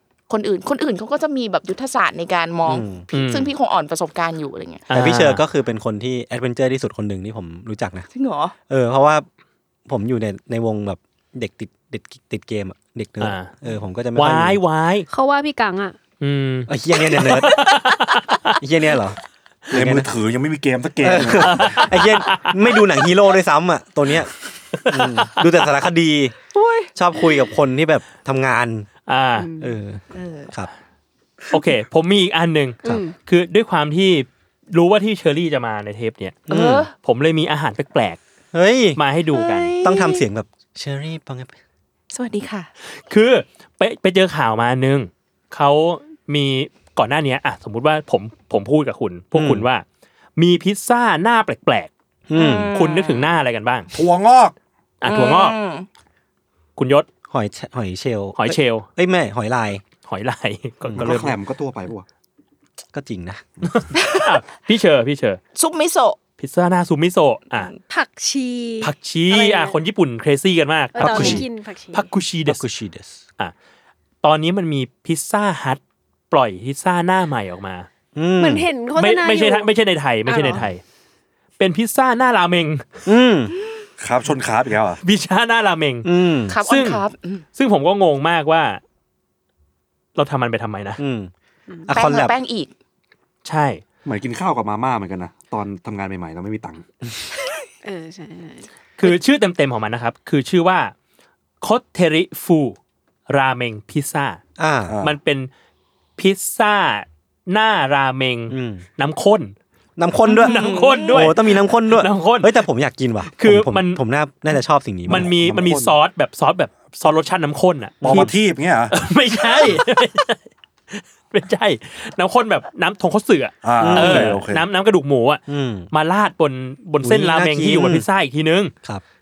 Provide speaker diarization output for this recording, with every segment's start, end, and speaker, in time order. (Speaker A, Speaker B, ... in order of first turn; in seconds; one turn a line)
Speaker A: 0.3-4.8
Speaker B: 2.7-3.0
Speaker C: 3.1-3.5
Speaker C: 4.9-5.4
Speaker B: 4.9-8.1
Speaker A: 8.1-8.5
Speaker B: 8.7-9.3
Speaker B: 9.9-14.6
Speaker C: 13.2-13.5
Speaker C: 14.2-15.1
Speaker D: 15.1-16.0
Speaker C: 16.2-18.6
Speaker B: 16.7-17.6
Speaker B: 18.6-19.2
Speaker B: 19.7-20.1
Speaker E: 19.7-21.9
Speaker B: 21.0-24.3
Speaker C: 21.4-22.6
Speaker C: 24.8-25.5
Speaker B: 24.9-26.4
Speaker A: 26.5-26.9
Speaker B: 26.9-28.9
Speaker C: 29.1-29.5
Speaker D: 29.4-29.7
Speaker B: 29.6-30.7
Speaker A: 30.1-30.5
Speaker C: 31.5-36.4
Speaker D: 32.9-33.1
Speaker B: 36.5-36.9
Speaker A: 36.5-36.9
Speaker C: 37.0-38.2
Speaker B: 38.5-39.0
Speaker C: 39.0-39.8
Speaker A: 39.3-40.2
Speaker B: 39.8-41.5
Speaker A: 42.1-42.7
Speaker C: 43.1-49.9
Speaker B: 49.3-49.7
Speaker C: 50.4-51.9
Speaker B: 52.3-52.7
Speaker A: 52.4-53.3
Speaker C: 52.7-53.9
Speaker E: 53.9-54.5
Speaker C: 55.0-55.6
Speaker A: 55.0-55.9
Speaker C: 56.8-57.1
Speaker B: 57.3-59.8
Speaker C: 58.4-58.9
Speaker C: 60.1-61.4
Speaker B: 60.9-61.3
Speaker E: 61.0-62.1
Speaker B: 62.9-63.4
Speaker C: 63.6-65.4
Speaker A: 63.9-64.3
Speaker A: 65.5-66.2
Speaker C: 66.4-67.7
Speaker D: 67.9-69.7
Speaker C: 68.8-72.6
Speaker D: 70.9-72.1
Speaker B: 71.0-71.5
Speaker B: 72.5-73.2
Speaker C: 74.2-75.8
Speaker C: 76.3-77.9
Speaker B: 78.2-78.7
Speaker D: 78.4-79.7
Speaker C: 79.0-80.8
Speaker D: 80.3-80.7
Speaker C: 81.6-83.1
Speaker B: 83.1-83.5
Speaker E: 84.0-85.0
Speaker C: 85.0-86.1
Speaker B: 86.0-86.6
Speaker A: 86.5-87.4
Speaker C: 86.7-87.0
Speaker C: 87.6-88.8
Speaker C: 90.2-91.0
Speaker B: 91.0-91.3
Speaker B: 91.9-92.4
Speaker A: 91.9-92.7
Speaker C: 93.5-93.8
Speaker E: 94.0-96.8
Speaker D: 97.8-98.7
Speaker C: 99.0-100.9
Speaker C: 101.6-102.8
Speaker C: 103.3-104.4
Speaker B: 104.6-105.0
Speaker E: 104.9-105.2
Speaker C: 105.0-105.5
Speaker C: 106.2-109.5
Speaker B: 108.5-108.8
Speaker B: 110.0-115.3
Speaker A: 110.3-111.2
Speaker C: 110.3-112.5
Speaker C: 113.4-114.0
Speaker C: 115.1-118.3
Speaker E: 115.1-115.9
Speaker B: 118.0-118.3
Speaker E: 118.0-118.9
Speaker C: 118.9-120.4
Speaker C: 120.9-128.7
Speaker E: 123.6-124.7
Speaker B: 123.8-124.4
Speaker B: 125.5-125.9
Speaker B: 127.0-128.1